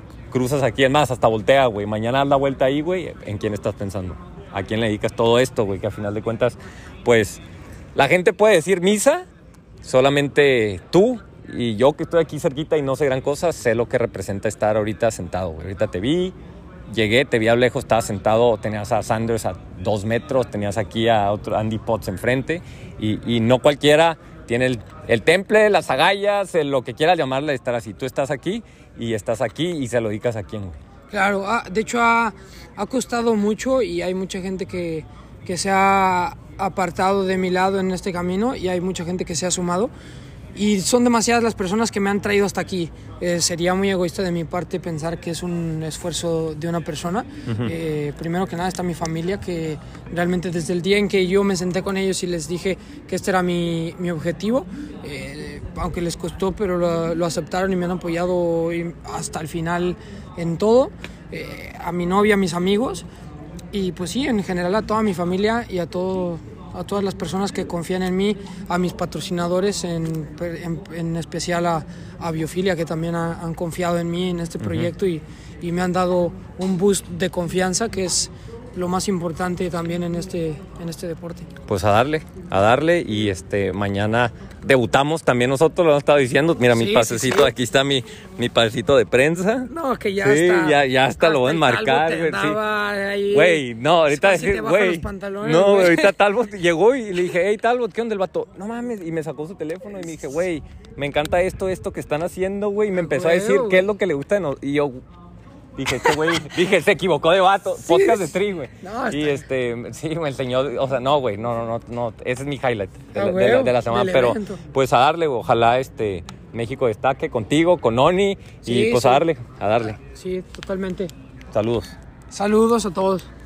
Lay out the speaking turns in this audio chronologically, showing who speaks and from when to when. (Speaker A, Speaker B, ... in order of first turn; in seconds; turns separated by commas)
Speaker A: 0.3-7.4, Speaker A: 7.9-9.2, Speaker A: 9.8-16.4, Speaker A: 16.9-30.8, Speaker B: 31.1-39.9, Speaker B: 40.5-63.1, Speaker A: 47.5-47.7, Speaker B: 63.7-81.5, Speaker A: 74.6-74.9, Speaker A: 81.7-89.7, Speaker B: 86.7-87.5, Speaker B: 89.6-96.1, Speaker A: 90.2-92.6, Speaker A: 93.3-105.0, Speaker B: 103.0-103.8, Speaker A: 105.8-120.0, Speaker B: 107.8-109.4, Speaker B: 113.1-114.6, Speaker B: 118.6-119.2, Speaker B: 119.9-121.1, Speaker A: 121.5-121.9, Speaker B: 122.3-123.3